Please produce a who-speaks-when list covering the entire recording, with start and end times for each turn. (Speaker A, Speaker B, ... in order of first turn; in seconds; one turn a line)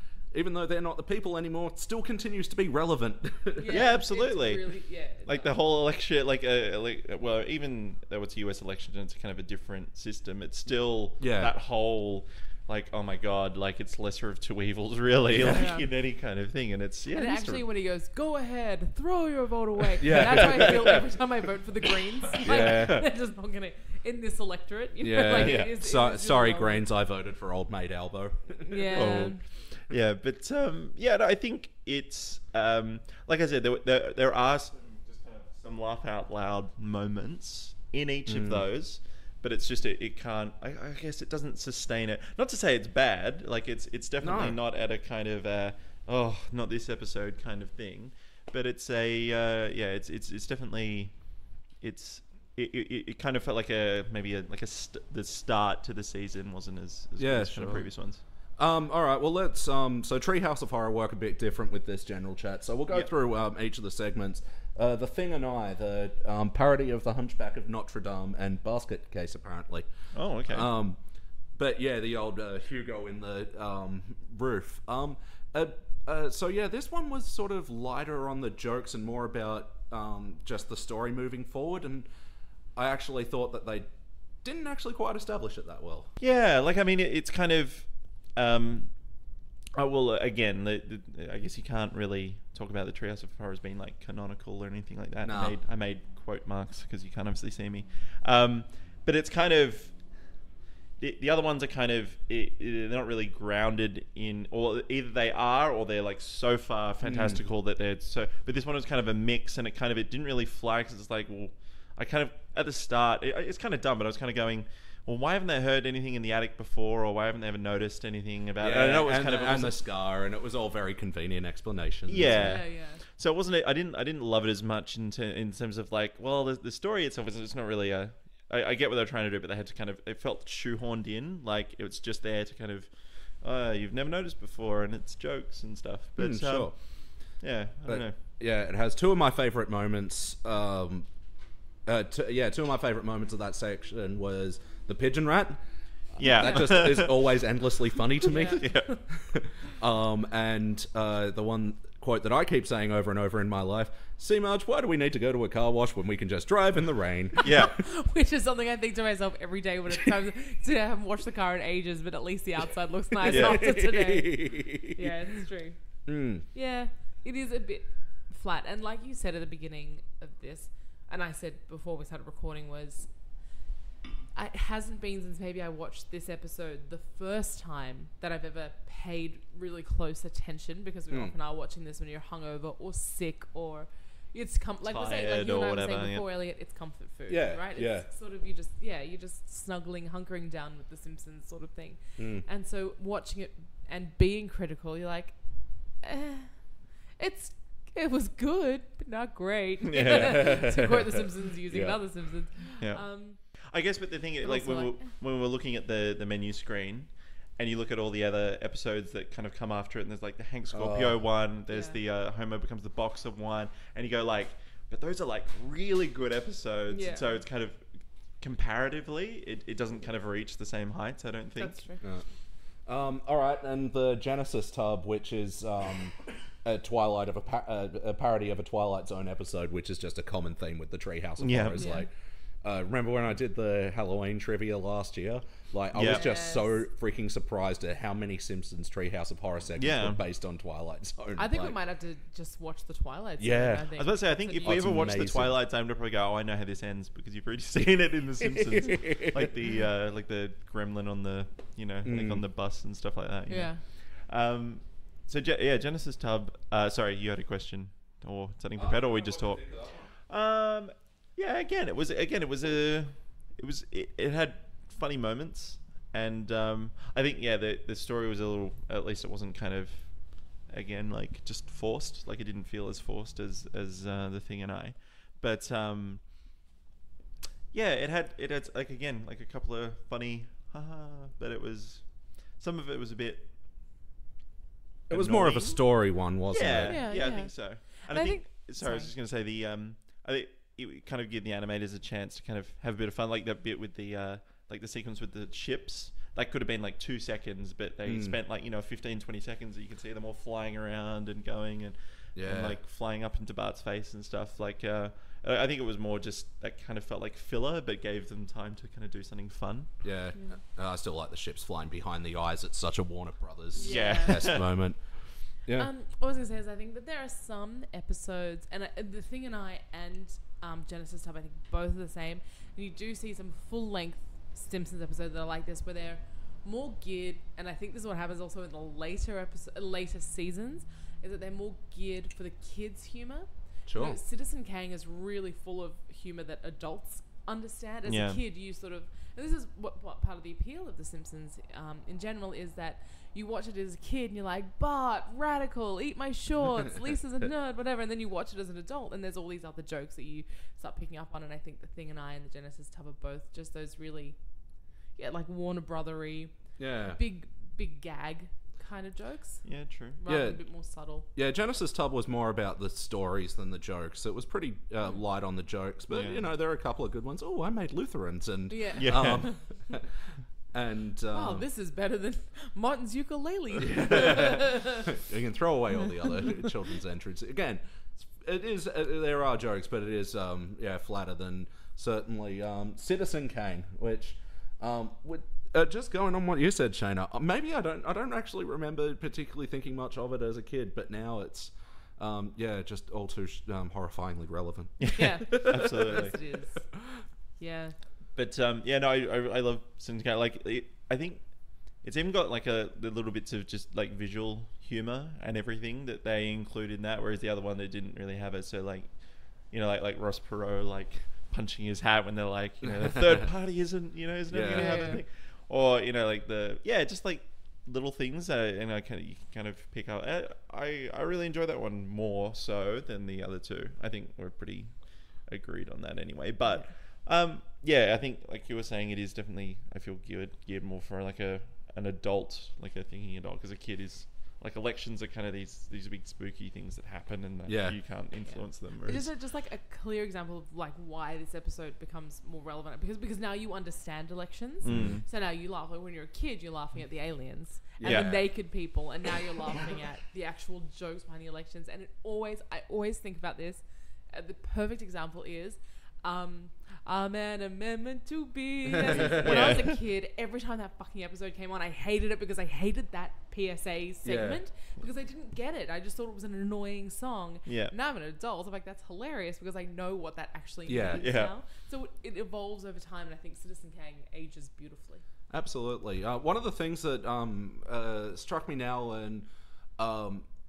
Speaker A: 0.3-3.8
Speaker B: 3.6-5.5
Speaker C: 3.7-4.7
Speaker C: 5.2-17.6
Speaker A: 11.2-11.5
Speaker B: 15.4-15.9
Speaker B: 17.1-26.8
Speaker A: 20.0-21.0
Speaker C: 20.1-21.1
Speaker A: 22.4-23.1
Speaker A: 25.0-29.3
Speaker C: 25.3-25.7
Speaker B: 28.6-29.4
Speaker C: 28.9-51.1
Speaker A: 38.3-38.7
Speaker A: 44.2-44.6
Speaker C: 51.8-58.2
Speaker A: 57.2-57.9
Speaker A: 58.6-69.9
Speaker C: 70.1-70.7
Speaker A: 70.5-71.0
Speaker A: 71.6-82.1
Speaker A: 82.8-83.9
Speaker A: 84.4-86.1
Speaker C: 86.2-88.9
Speaker C: 89.7-100.0
Speaker A: 95.2-95.6
Speaker C: 101.0-119.8
Speaker A: 107.0-107.4
Speaker A: 118.6-122.6
Speaker C: 122.1-138.2
Speaker B: 122.2-123.0
Speaker A: 136.2-136.8
Speaker A: 137.9-141.1
Speaker A: 141.9-145.6
Speaker A: 146.2-157.5
Speaker C: 146.2-147.4
Speaker B: 148.3-149.0
Speaker C: 148.3-148.9
Speaker B: 157.4-165.8
Speaker C: 157.4-157.8
Speaker A: 163.2-165.2
Speaker C: 163.2-163.6
Speaker A: 166.1-166.4
Speaker B: 166.5-173.1
Speaker B: 174.3-196.6
Speaker C: 184.9-186.2
Speaker A: 187.3-188.1
Speaker A: 192.2-192.4
Speaker B: 197.2-203.4
Speaker C: 199.9-200.6
Speaker A: 200.0-202.0
Speaker C: 202.8-217.9
Speaker B: 204.4-205.1
Speaker A: 210.7-211.2
Speaker B: 211.7-212.0
Speaker B: 216.9-217.4
Speaker C: 218.4-221.8
Speaker B: 221.6-222.0
Speaker A: 222.9-232.1
Speaker C: 231.4-231.9
Speaker B: 231.8-232.1
Speaker A: 232.6-241.8
Speaker C: 235.9-236.2
Speaker B: 236.0-236.9
Speaker C: 239.8-240.2
Speaker B: 241.4-245.1
Speaker A: 243.4-244.0
Speaker C: 244.0-276.3
Speaker A: 244.6-245.6
Speaker A: 248.4-249.5
Speaker A: 252.1-252.4
Speaker B: 253.5-253.8
Speaker A: 258.8-260.1
Speaker C: 277.7-283.5
Speaker A: 285.1-287.1
Speaker C: 285.1-286.0
Speaker C: 286.5-309.9
Speaker B: 286.8-289.1
Speaker A: 298.1-298.4
Speaker A: 302.4-302.8
Speaker A: 310.0-315.9
Speaker B: 310.3-310.6
Speaker B: 313.8-314.6
Speaker C: 313.8-314.7
Speaker B: 315.8-354.4
Speaker A: 333.9-334.2
Speaker C: 338.1-338.4
Speaker B: 355.2-356.5
Speaker A: 356.8-357.2
Speaker B: 357.1-359.6
Speaker C: 359.6-360.2
Speaker B: 360.2-361.3
Speaker A: 360.3-360.6
Speaker A: 361.4-371.7
Speaker C: 366.1-366.5
Speaker B: 368.7-369.6
Speaker C: 369.0-369.5
Speaker B: 371.3-375.1
Speaker A: 373.8-396.3
Speaker B: 376.2-376.7
Speaker C: 395.0-396.4
Speaker B: 395.1-396.9
Speaker B: 397.6-398.0
Speaker C: 398.4-439.3
Speaker A: 414.5-415.2
Speaker B: 414.7-415.2
Speaker A: 437.7-438.0
Speaker B: 438.5-475.2
Speaker C: 444.8-445.2
Speaker A: 444.9-445.2
Speaker C: 448.0-448.5
Speaker A: 458.9-459.8
Speaker C: 459.2-460.0
Speaker A: 464.2-464.6
Speaker C: 467.7-467.9
Speaker A: 470.9-471.3
Speaker C: 471.1-471.5
Speaker A: 475.5-480.5